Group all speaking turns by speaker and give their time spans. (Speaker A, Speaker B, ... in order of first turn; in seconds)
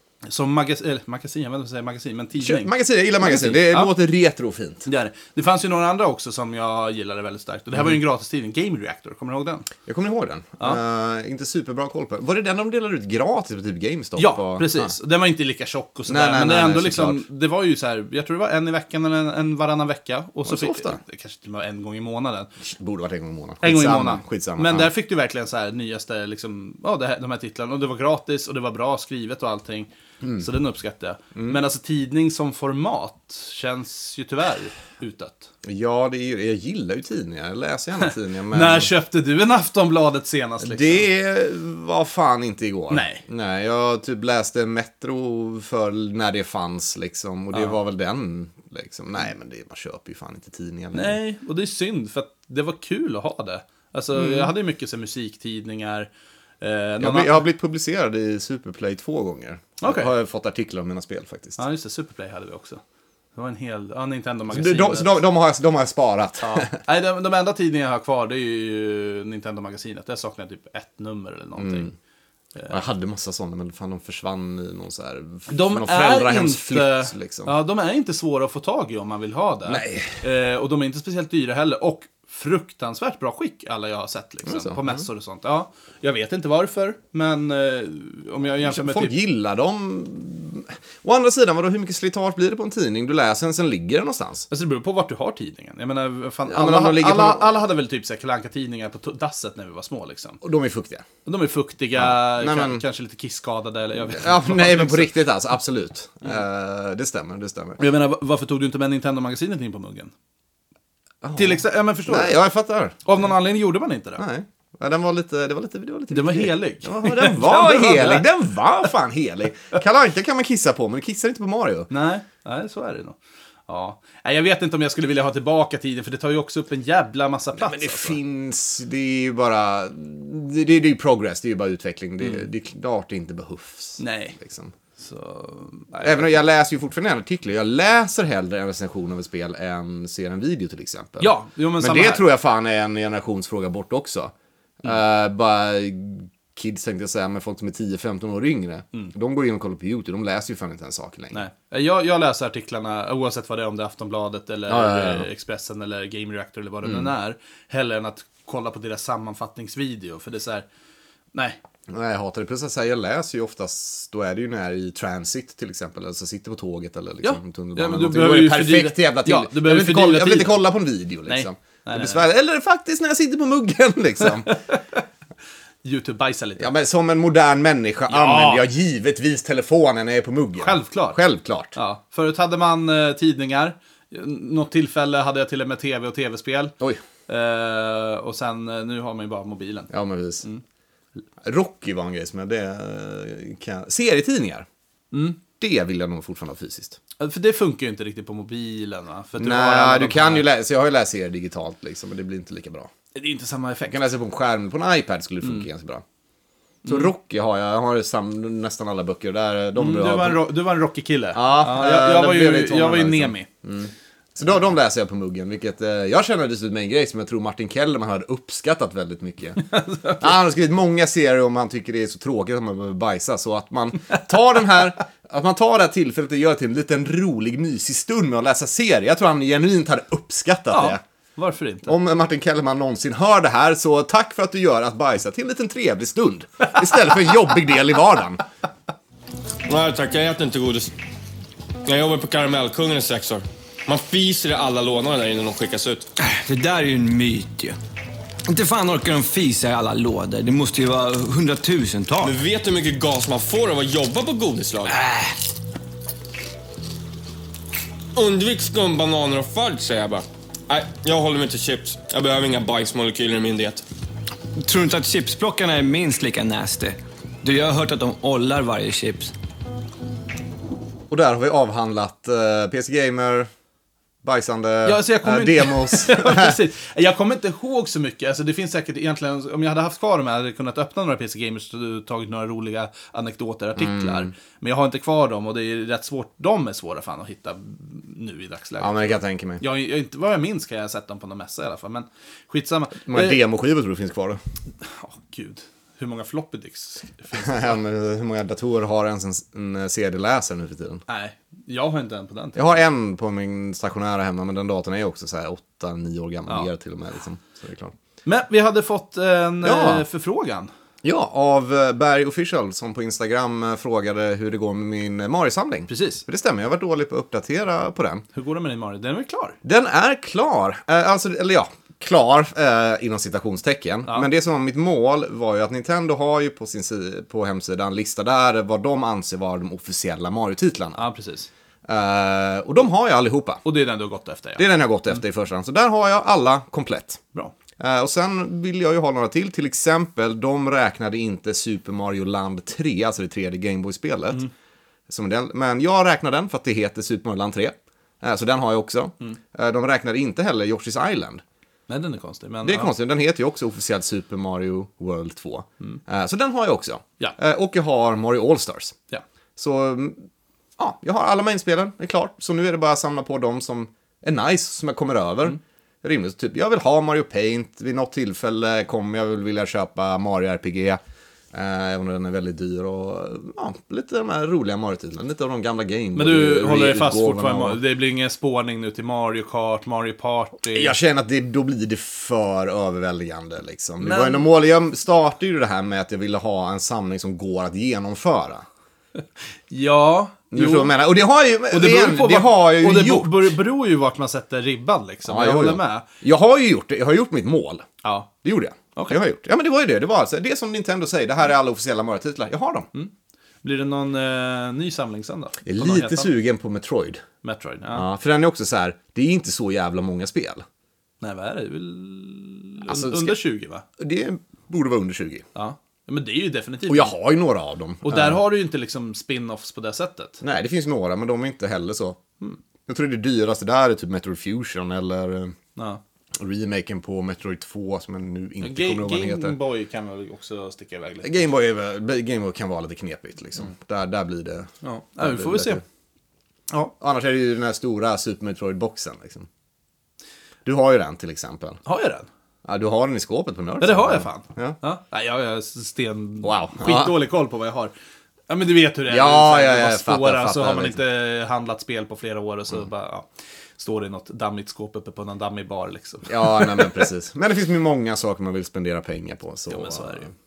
Speaker A: 0.3-4.0, 4.9-9.7, 14.2-22.5, 23.6-35.5, 38.0-41.1, 42.9-43.2, 47.5-47.8, 50.9-56.1, 56.6-57.4, 59.8-60.1, 61.6-62.8, 63.4-65.2, 66.4-71.9, 75.5-89.2, 94.5-100.4, 101.2-105.1, 107.8-110.1, 111.4-112.4, 113.0-114.2, 116.1-118.3, 121.9-128.2, 134.0-134.4, 135.0-136.3, 141.2-142.2, 151.3-160.7, 161.3-161.6, 167.2-170.7, 171.3-172.3, 174.5-175.0, 175.8-176.7, 178.1-178.6, 180.6-181.2, 181.8-186.7, 187.3-189.9, 195.1-195.4, 197.2-200.5, 203.2-204.0, 206.8-207.1, 209.8-213.5, 219.7-220.3, 230.7-232.0, 274.9-293.4, 294.8-297.8, 301.1-302.8, 308.3-310.7, 315.9-316.2, 318.3-319.6, 331.0-331.5, 333.6-334.6, 351.9-352.9, 376.1-381.0, 384.0-384.5, 389.7-390.9, 391.7-396.1, 398.0-398.3, 403.6-406.3, 407.4-408.1, 411.2-413.8, 415.6-417.1, 418.0-420.4, 428.6-431.4, 434.8-435.8, 441.9-442.3, 443.8-447.9, 448.5-453.3, 453.8-457.0, 459.7-460.3
Speaker B: 2.4-4.9, 9.9-14.9, 16.1-17.2, 20.4-21.0, 22.6-24.9, 30.2-30.5, 35.6-38.9, 40.6-51.2, 54.1-54.5, 57.0-61.6, 64.5-66.8, 71.6-71.9, 72.7-77.5, 79.7-80.2, 84.5-85.0, 88.6-94.5, 96.5-97.5, 100.4-101.1, 102.0-102.8, 104.1-107.8, 111.2-113.0, 114.2-121.9, 127.5-134.7, 136.0-151.4, 154.7-155.3, 156.8-157.1, 161.9-174.6, 176.6-181.8, 189.9-190.4, 191.4-194.7, 195.6-197.0, 199.4-202.9, 203.9-206.0, 206.9-210.5, 211.3-231.0, 231.9-238.4, 271.1-273.5, 274.2-276.6, 283.8-284.3, 288.8-289.6, 293.1-294.4, 297.4-301.0, 302.6-307.9, 309.6-310.1, 311.0-318.2, 319.6-331.0, 331.9-333.6, 334.6-337.2, 337.8-344.5, 345.1-351.4, 352.6-359.0, 359.6-360.3, 360.8-371.0, 371.5-377.8, 380.7-388.6, 390.5-393.6, 395.3-397.9, 398.4-402.9, 405.7-407.2, 407.9-410.6, 412.9-413.4, 414.0-415.5, 416.9-418.4, 420.4-422.3, 422.9-425.6, 426.4-429.6, 431.2-435.8, 437.0-439.5, 440.6-441.8, 442.6-444.8, 446.4-447.1, 449.1-451.0, 456.3-460.3
Speaker C: 239.7-240.9, 241.9-246.1, 252.2-254.9, 258.1-263.8
Speaker D: 246.2-247.8, 248.5-252.4, 254.9-255.3, 264.6-269.3